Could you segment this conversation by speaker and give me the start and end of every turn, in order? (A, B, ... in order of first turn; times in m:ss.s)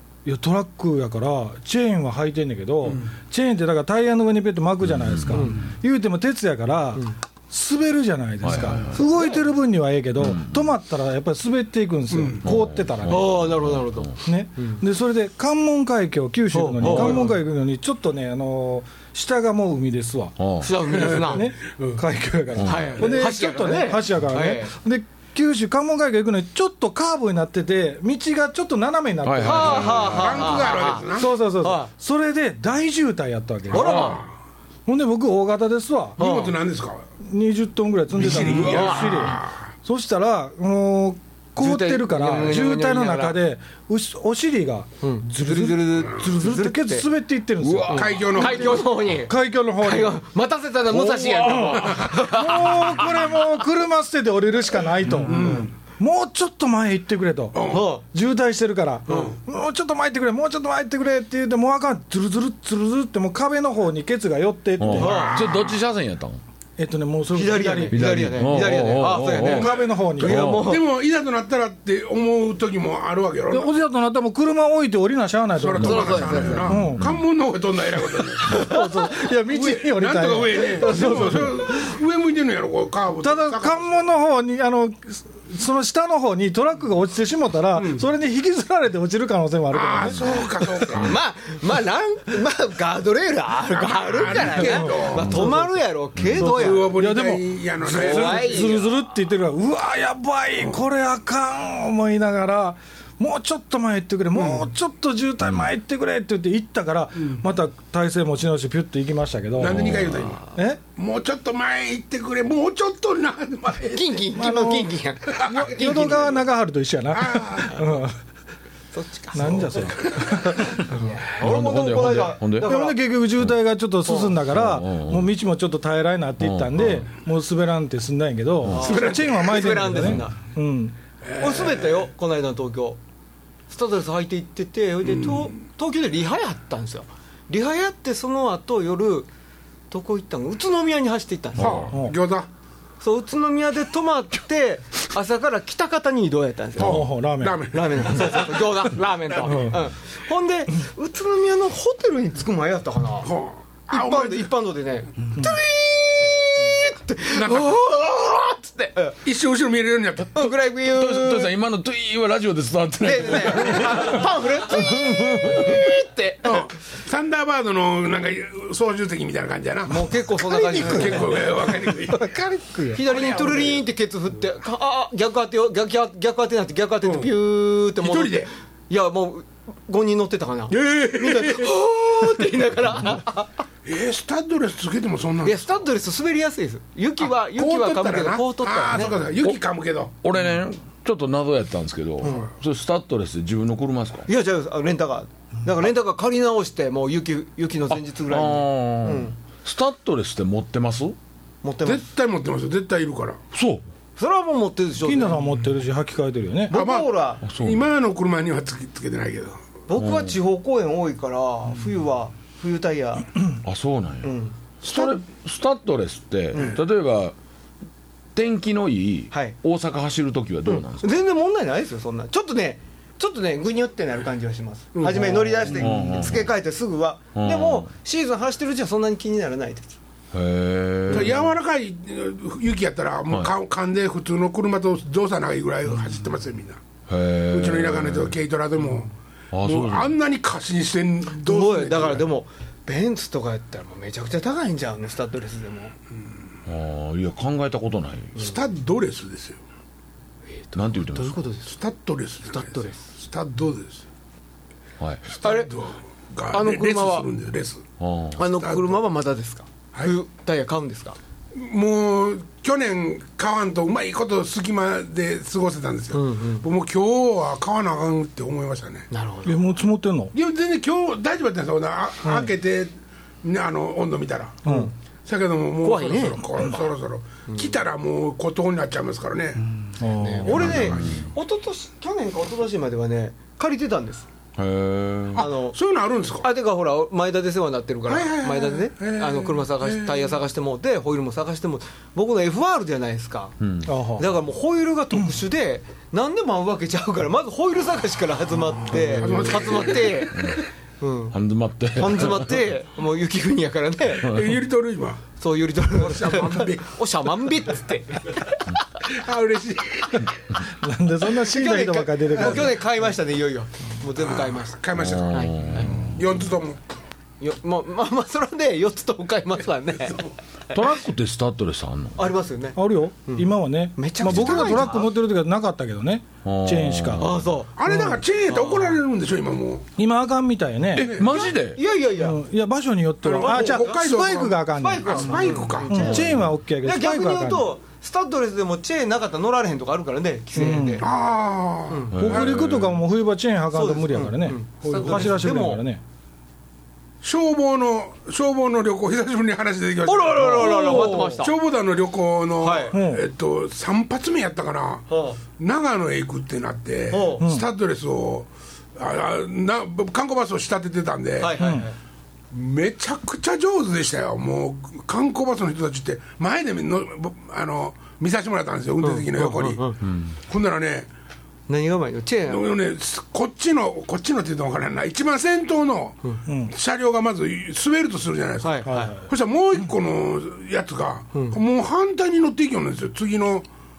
0:00.2-0:13.4 A
0:04.8-0:05.7 B
0:05.3-0:05.6 C
0:08.4-0:09.0 B
0:08.9-0:09.5 C
0:10.2-0:10.7 B
0:12.1-0:12.4 D
0:12.4-0:14.1 B
0:13.1-0:14.8 C
0:14.2-0:20.4 A
0:16.5-0:17.4 C
0:16.8-0:17.1 B
0:20.4-0:20.7 B
0:20.6-0:21.5 C
0:20.9-0:34.2 A
0:21.0-0:22.0 D
0:22.6-0:22.9 B
0:22.6-0:24.7 C
0:29.2-0:30.4 B
0:29.4-0:31.9 C
0:29.8-0:31.4 D
0:33.7-0:34.2 C
0:33.7-0:34.3 D
0:34.9-0:36.3 A
0:36.2-0:37.0 D
0:36.2-0:36.6 C
0:37.2-0:50.2 A
0:38.1-0:39.6 D
0:38.5-0:39.4 C
0:41.6-0:43.4 C
0:45.0-0:47.1 C
0:47.6-0:48.2 B
0:47.9-0:48.9 D
0:47.9-0:53.3 C
0:50.9-1:05.4 A
0:55.1-0:55.5 C
0:55.2-0:55.7 D
0:57.5-0:57.9 D
0:57.7-0:58.0 C
0:59.1-0:59.3 C
0:59.1-0:59.4 D
1:04.8-1:06.4 B
1:04.9-1:05.8 D
1:05.0-1:05.4 C
1:06.8-1:10.7 A
1:07.3-1:10.9 C
1:07.9-1:09.7 B
1:09.4-1:13.7 D
1:13.5-1:17.0 A
1:15.6-1:18.7 D
1:15.8-1:16.7 C
1:15.8-1:17.2 B
1:18.4-1:21.6 A
1:18.5-1:18.8 C
1:19.4-1:24.0 D
1:20.6-1:21.8 C
1:23.2-1:30.3 A
1:27.7-1:28.0 D
1:29.7-1:31.2 D
1:30.9-1:36.9 C
1:33.7-1:35.5 D
1:34.6-1:35.7 A
1:36.4-1:38.8 D
1:36.4-1:50.8 A
1:37.9-1:38.9 C
1:40.6-1:40.8 D
1:44.3-1:44.7 D
1:49.6-1:50.4 D
1:49.7-1:50.1 B
1:51.0-1:54.3 D
1:53.9-1:56.4 C
1:54.3-1:58.2 A
1:55.3-1:56.0 D
1:57.1-1:58.0 D
1:58.9-2:03.0 C
1:59.3-2:00.9 A
1:59.7-2:00.4 D
2:01.4-2:02.7 B
2:02.6-2:11.0 A
2:04.0-2:04.4 C
2:04.5-2:05.3 B
2:06.4-2:07.1 B
2:08.7-2:10.4 C
2:08.8-2:09.8 D
2:09.9-2:10.2 B
2:11.2-2:12.1 D
2:11.4-2:13.0 C
2:13.7-2:19.3 C
2:15.0-2:15.5 D
2:19.9-2:21.9 C
2:21.6-2:22.5 D
2:21.6-2:21.9 B
2:23.0-2:27.0 C
2:26.8-2:28.6 D
2:26.8-2:27.6 A
2:27.7-2:33.3 C
2:29.4-2:29.9 A
2:33.2-2:34.5 D
2:33.9-2:39.2 C
2:37.3-2:37.8 D
2:39.2-2:40.5 D
2:40.3-2:41.5 C
2:40.8-2:44.2 B
2:43.0-2:46.7 C
2:46.4-2:52.3 D
2:49.9-2:51.7 C
2:50.6-2:51.4 A
2:52.1-2:53.0 A
2:52.9-3:03.6 C
2:53.0-2:53.8 D
2:57.0-2:57.3 D
2:58.0-2:58.5 D
3:00.7-3:01.7 D
3:03.8-3:05.8 D
3:05.4-3:09.2 C
3:07.2-3:10.1 D
3:10.2-3:14.3 B
3:12.2-3:12.5 C
3:14.3-3:19.4 C
3:17.9-3:21.2 B
3:21.6-3:22.0 C
3:21.8-3:23.4 D
3:23.5-3:23.8 B
3:24.2-3:25.5 C
3:25.0-3:26.8 A
3:26.7-3:27.4 C
3:26.7-3:29.6 D
3:27.4-3:27.8 B
3:29.9-3:33.3 C
3:30.0-3:30.4 B
3:33.6-3:37.4 B
3:34.2-3:35.1 C
3:36.5-3:36.8 C
3:38.4-3:41.2 B
3:39.3-3:39.6 C
3:40.7-3:50.0 C
3:45.0-3:45.8 D
3:45.7-3:46.5 B
3:47.4-3:47.9 B
3:50.3-3:51.4 B
3:51.1-3:56.8 D
3:57.1-3:58.4 B
3:57.5-3:59.1 D
3:59.5-4:00.1 B
3:59.6-4:02.2 D
4:01.4-4:05.9 C
4:06.7-4:08.4 B
4:08.4-4:09.6 D
4:10.7-4:11.7 C
4:10.8-4:11.4 B
4:11.7-4:14.1 D
4:12.5-4:13.0 C
4:15.0-4:15.3 B
4:15.4-4:17.9 D
4:15.4-4:15.7 C
4:16.5-4:17.3 C
4:18.0-4:18.4 B
4:18.4-4:21.2 C
4:18.4-4:19.0 D
4:21.5-4:29.1 D
4:26.1-4:26.6 C
4:29.1-4:29.6 C
4:29.4-4:30.3 A
4:30.3-4:34.6 D
4:34.6-4:34.9 C
4:34.6-4:34.9 A
4:35.3-4:39.7 D
4:35.8-4:36.5 C
4:40.0-4:40.9 A
4:40.2-4:44.3 C
4:40.4-4:41.2 D
4:40.5-4:41.2 B
4:44.6-4:45.4 B
4:45.3-4:46.5 D
4:45.4-4:45.8 C
4:46.4-4:53.6 C
4:48.1-4:50.4 D
4:53.6-4:53.9 B
4:53.8-4:54.3 A
4:54.2-5:01.4 C
4:58.9-5:00.3 D
5:01.3-5:02.6 B
5:02.0-5:04.3 C
5:04.2-5:05.3 D
5:05.4-5:08.6 C
5:05.8-5:07.0 D
5:09.1-5:10.4 D
5:10.7-5:12.9 A
5:11.5-5:14.8 C
5:12.4-5:12.7 D
5:14.2-5:16.8 D
5:15.0-5:16.2 B
5:15.3-5:16.0 C
5:17.4-5:20.9 C
5:20.7-5:22.3 B
5:22.2-5:25.1 C
5:22.8-5:27.3 A
5:26.4-5:27.4 B
5:27.2-5:27.8 C
5:27.8-5:29.9 D
5:27.9-5:28.2 A
5:28.5-5:29.0 C
5:30.0-5:31.2 A
5:30.9-5:31.8 B
5:31.0-5:31.5 D
5:31.2-5:32.4 C
5:32.2-5:37.7 A
5:33.2-5:36.3 D
5:33.3-5:34.1 C
5:34.7-5:41.1 C
5:36.0-5:36.5 B
5:40.6-5:41.0 A
5:41.0-5:43.0 D
5:41.9-5:42.5 C
5:42.1-5:42.6 B
5:42.2-5:46.0 A
5:43.7-5:45.8 C
5:44.8-5:45.5 D
5:47.2-6:01.9 D
5:50.0-5:51.5 C
5:50.5-5:51.4 A
5:52.6-5:53.0 C
5:52.9-5:53.2 A
5:55.1-5:55.4 C
5:57.1-5:57.4 C
5:57.4-5:57.7 A
6:01.4-6:02.0 C
6:01.6-6:01.9 A
6:02.5-6:10.0 D
6:09.0-6:10.0 C
6:10.5-6:11.1 D
6:11.7-6:12.7 C
6:12.5-6:23.7 D
6:16.5-6:16.7 A
6:18.6-6:19.2 C
6:18.9-6:19.2 A